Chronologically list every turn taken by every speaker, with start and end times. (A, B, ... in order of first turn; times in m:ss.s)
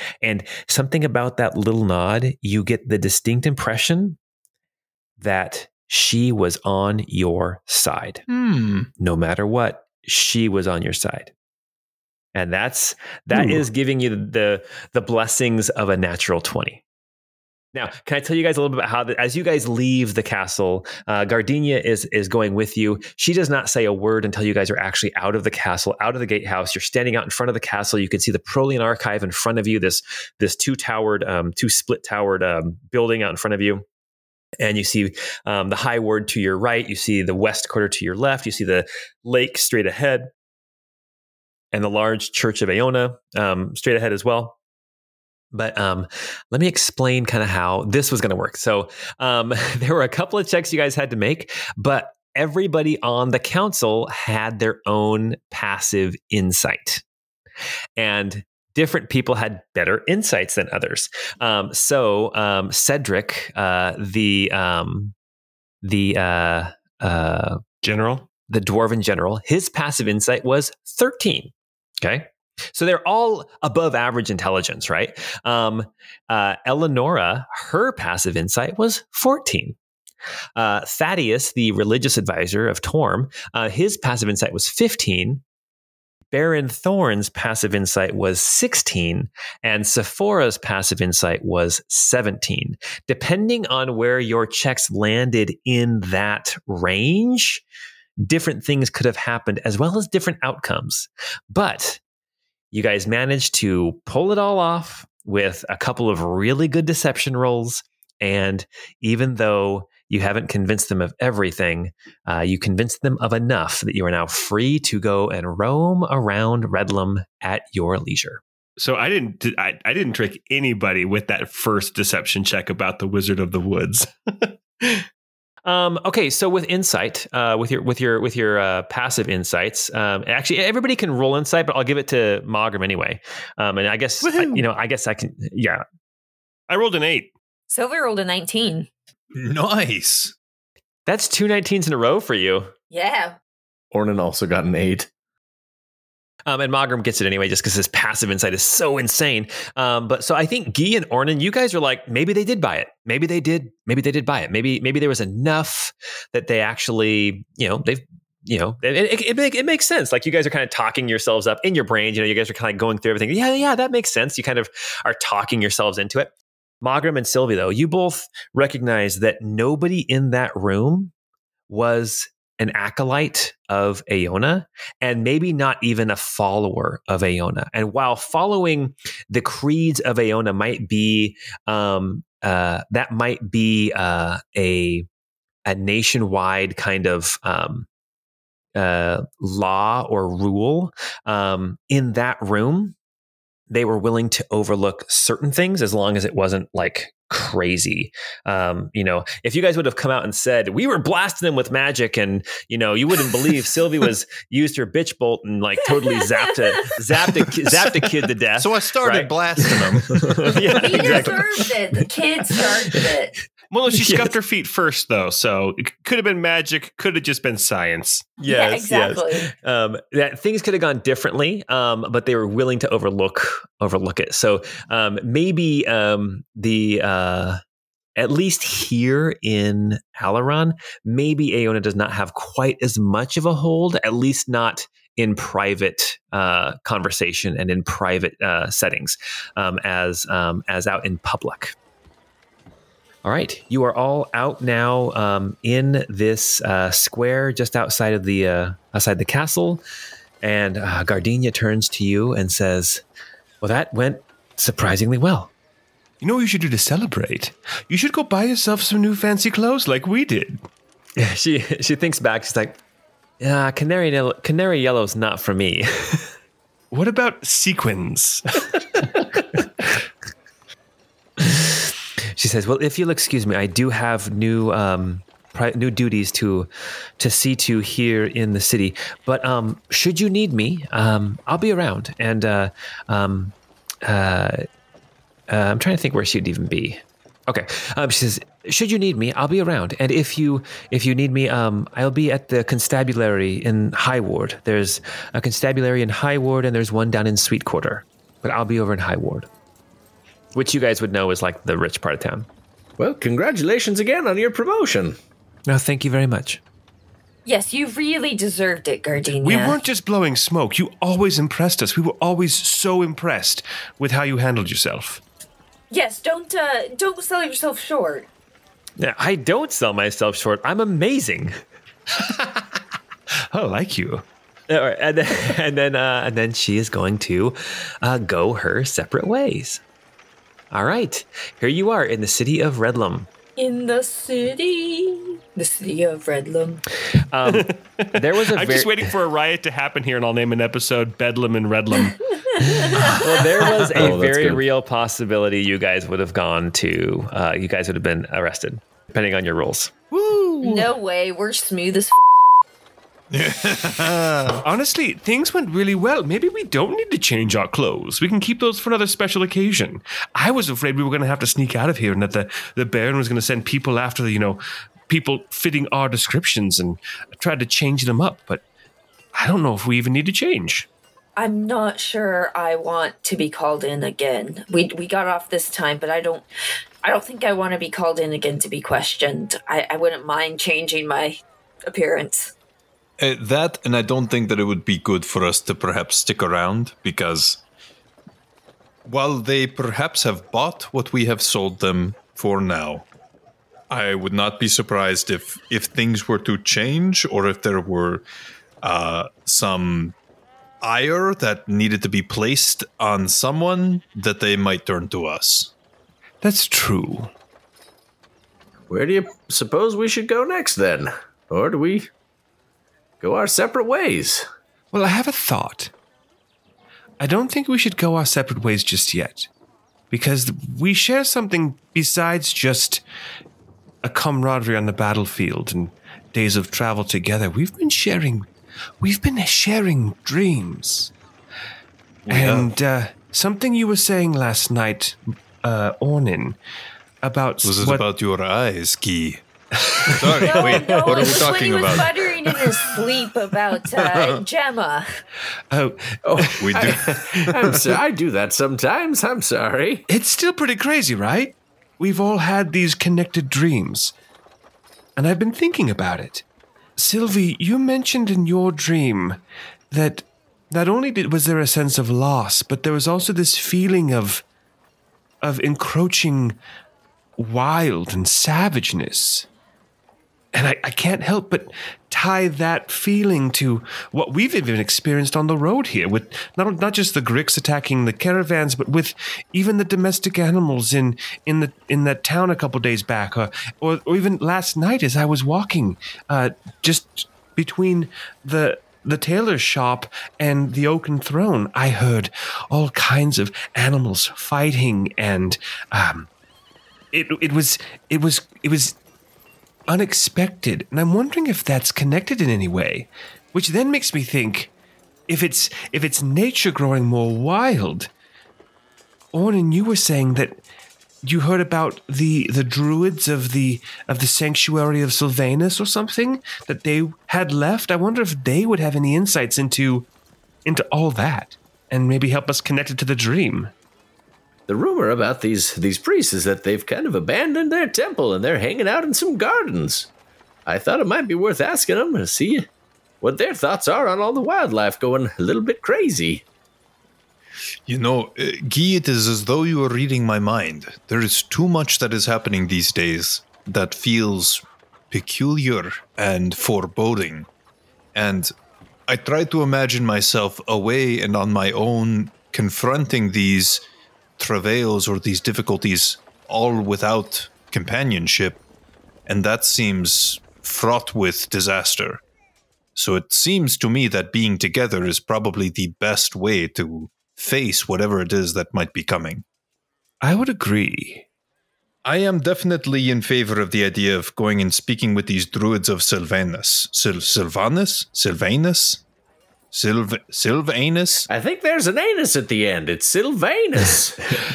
0:00.2-0:04.2 A
0:05.2-0:08.2 A
0:08.3-0:08.9 B
0:09.0-0:11.3 A
0:12.4-0:16.8 A
0:17.7-0:33.8 A
0:34.6-0:40.3 A
0:41.7-0:44.6 A
0:45.5-0:57.0 A
0:58.0-1:05.2 A
1:05.8-1:07.6 A
1:07.8-1:08.3 C
1:08.5-1:19.8 A
1:20.6-1:25.4 A
1:26.3-1:37.6 A
1:38.2-1:42.0 A
1:42.7-1:58.4 A
1:58.8-2:05.1 C
2:05.6-2:15.8 A
2:14.2-2:14.6 C
2:16.7-2:17.3 C
2:17.7-2:18.9 D
2:19.3-2:20.4 B
2:21.1-2:22.7 A
2:22.9-2:23.4 D
2:23.9-2:25.1 E
2:26.5-2:51.1 A
2:51.7-3:05.1 A
3:05.7-3:07.9 A
3:08.8-3:13.0 A
3:13.7-3:31.7 A
3:27.6-3:31.3 B
3:30.7-3:33.3 D
3:30.9-3:31.4 C
3:33.7-3:38.3 C
3:33.9-3:34.3 A
3:38.4-3:47.6 A
3:38.5-3:39.5 D
3:48.2-4:01.8 A
4:03.2-4:09.8 A
4:10.4-4:13.0 A
4:13.6-4:15.5 A
4:16.2-4:20.7 C
4:21.2-4:22.8 A
4:23.4-4:26.3 A
4:26.9-4:28.7 C
4:31.4-4:36.7 A
4:37.2-4:44.7 A
4:45.5-4:59.5 A
5:00.5-5:02.5 A
5:03.0-5:05.2 E
5:05.7-5:06.6 A
5:07.5-5:09.8 D
5:09.4-5:15.2 C
5:15.9-5:18.3 D
5:19.0-5:21.6 A
5:22.2-5:22.6 C
5:23.5-5:24.2 C
5:24.7-5:29.8 A
5:30.7-5:33.3 A
5:33.6-5:36.8 D
5:37.3-5:39.1 A
5:37.5-5:42.6 C
5:42.4-5:43.7 D
5:42.8-5:49.9 A
5:44.0-5:44.6 E
5:50.1-5:50.9 B
5:50.6-5:52.4 D
5:53.3-5:54.6 B
5:54.6-6:08.6 C
6:09.4-6:10.9 C
6:11.4-6:16.5 D
6:17.0-6:22.5 D
6:23.2-6:27.6 B
6:29.1-6:33.1 B
6:33.9-6:38.2 B
6:38.8-6:40.2 B
6:40.8-6:45.7 B
6:46.4-6:47.3 C
6:48.9-6:52.1 E
6:53.2-6:54.5 E
6:54.9-6:55.9 C
6:57.2-6:59.5 C
7:00.1-7:03.0 C
7:04.0-7:08.5 C
7:09.0-7:11.1 C
7:12.3-7:12.7 B
7:12.3-7:16.6 C
7:17.2-7:18.0 C
7:17.6-7:19.4 B
7:19.9-7:20.8 C
7:20.1-7:22.6 B
7:20.4-7:25.1 D
7:24.0-7:24.4 B
7:25.7-7:27.5 C
7:26.2-7:30.0 E
7:26.6-7:27.8 B
7:30.1-7:34.1 C
7:35.2-7:36.4 C
7:37.0-7:39.4 C
7:39.9-7:44.4 C
7:45.4-7:46.6 C
7:47.4-7:49.5 C
7:50.5-8:16.3 C
8:17.1-8:19.0 C
8:19.9-8:24.7 C
8:25.3-8:28.1 C
8:29.3-8:30.6 C
8:31.2-8:40.1 C
8:40.7-8:43.7 C
8:44.7-8:50.1 E
8:50.7-8:52.7 E
8:53.2-8:56.5 E
8:57.9-9:07.5 B
9:08.2-9:08.5 B
9:09.1-9:13.8 B
9:14.4-9:18.6 B
9:19.3-9:22.2 B
9:23.0-9:29.4 B
9:30.2-9:31.3 C
9:32.0-9:39.0 B
9:39.7-9:41.3 B
9:41.3-9:44.4 E